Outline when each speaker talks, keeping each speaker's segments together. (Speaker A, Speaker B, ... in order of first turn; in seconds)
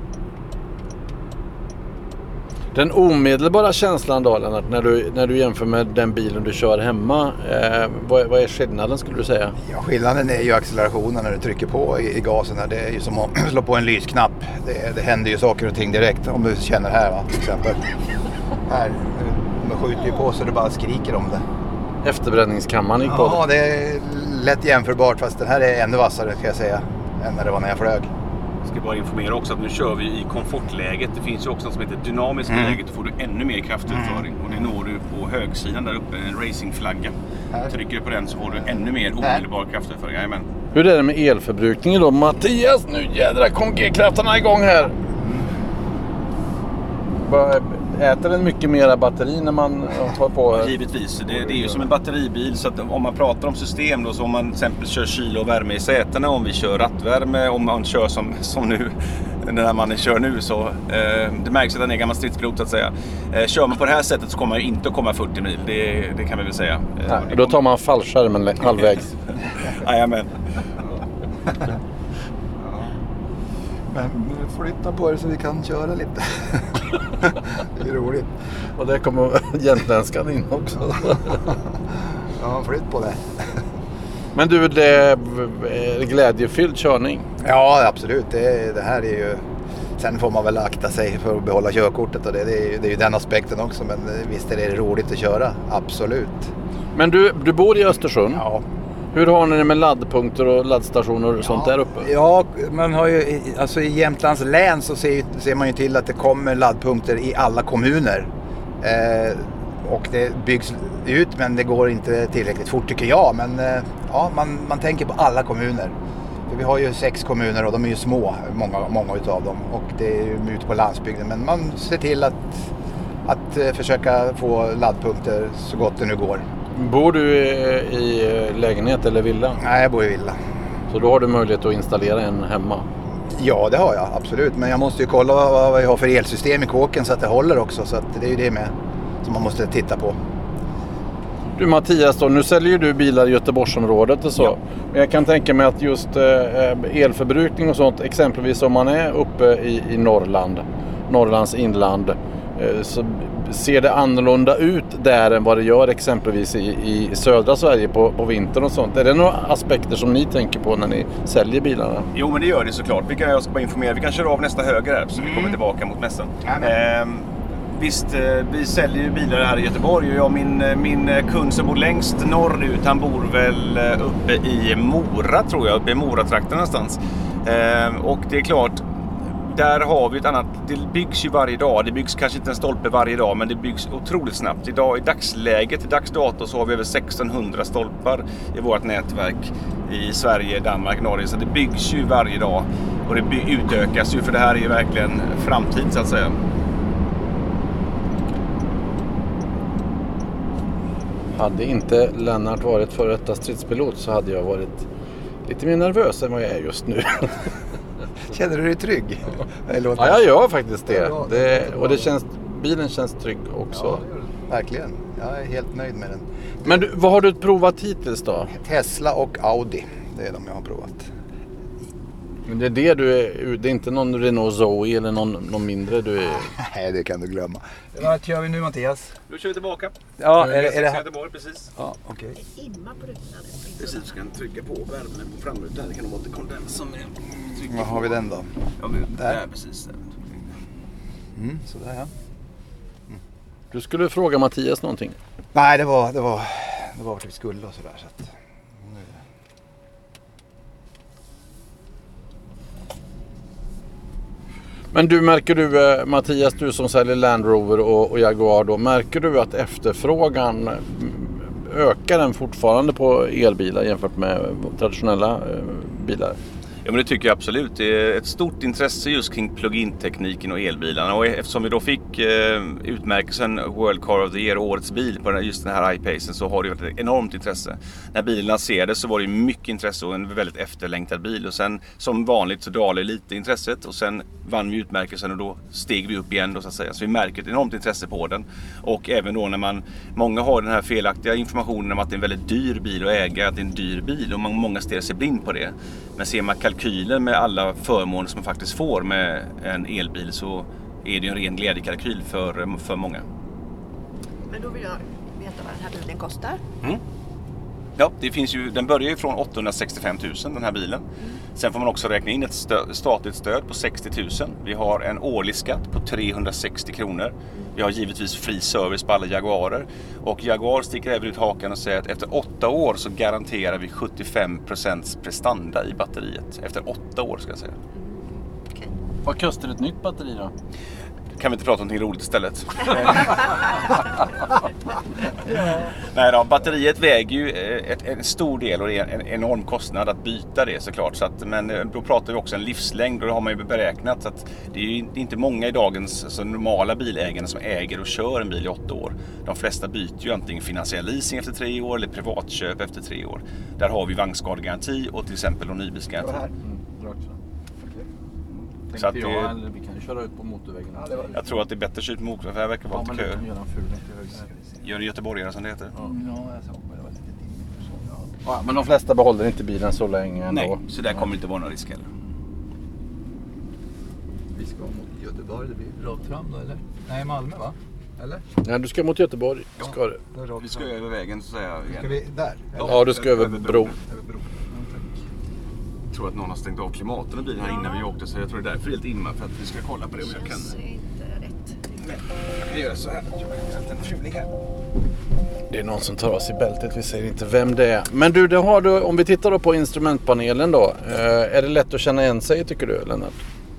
Speaker A: 2.7-9.6, 22.0-23.4, 40.7-45.0, 47.2-50.7, 51.3-51.9, 67.1-69.1, 78.8-81.4, 84.3-87.3, 97.0-98.5, 99.1-102.1, 126.7-129.6, 130.9-132.9, 141.6-162.1, 201.3-204.9, 205.4-207.4, 209.9-214.0, 216.7-218.5, 222.5-226.6, 243.7-245.2, 254.9-266.4, 329.2-330.5, 356.6-357.4, 358.9-361.4, 362.9-364.4, 368.4-371.2, 378.6-380.2, 382.8-383.9, 395.7-403.4
Speaker B: 9.6-17.9, 18.7-21.4, 23.0-28.1, 32.5-32.8, 34.2-34.6, 45.1-45.5, 72.6-72.9, 73.9-78.3, 81.1-83.6, 87.4-89.5, 90.0-96.5, 98.3-98.6, 101.4-108.3, 108.8-116.0, 116.5-122.7, 123.2-126.5, 129.6-130.4, 133.3-140.2, 165.2-165.6, 166.4-166.7, 208.3-210.3, 210.9-212.1, 213.7-216.8, 218.5-221.1, 226.5-229.2, 230.2-231.1, 231.8-232.4, 237.6-238.5, 239.1-239.4, 241.4-242.1, 245.5-248.3, 248.8-249.1, 356.2-356.5, 360.9-361.4, 364.3-364.6, 366.0-368.3, 374.5-378.4, 379.9-380.9, 381.9-383.0, 384.0-385.1, 394.0-394.4
Speaker C: 28.6-37.1, 37.7-40.5, 50.5-67.6, 69.6-70.4, 162.1-196.4, 229.3-231.7, 233.8-238.1, 238.8-240.5, 266.8-303.2, 308.0-327.8, 331.4-334.0, 335.9-356.4, 358.9-359.6, 361.3-363.4, 364.8-365.9, 370.5-372.1, 380.6-382.2, 382.8-384.0, 386.1-390.8, 392.1-394.2
Speaker D: 232.4-234.2, 304.5-306.6, 327.9-328.9, 387.6-388.1, 390.2-392.0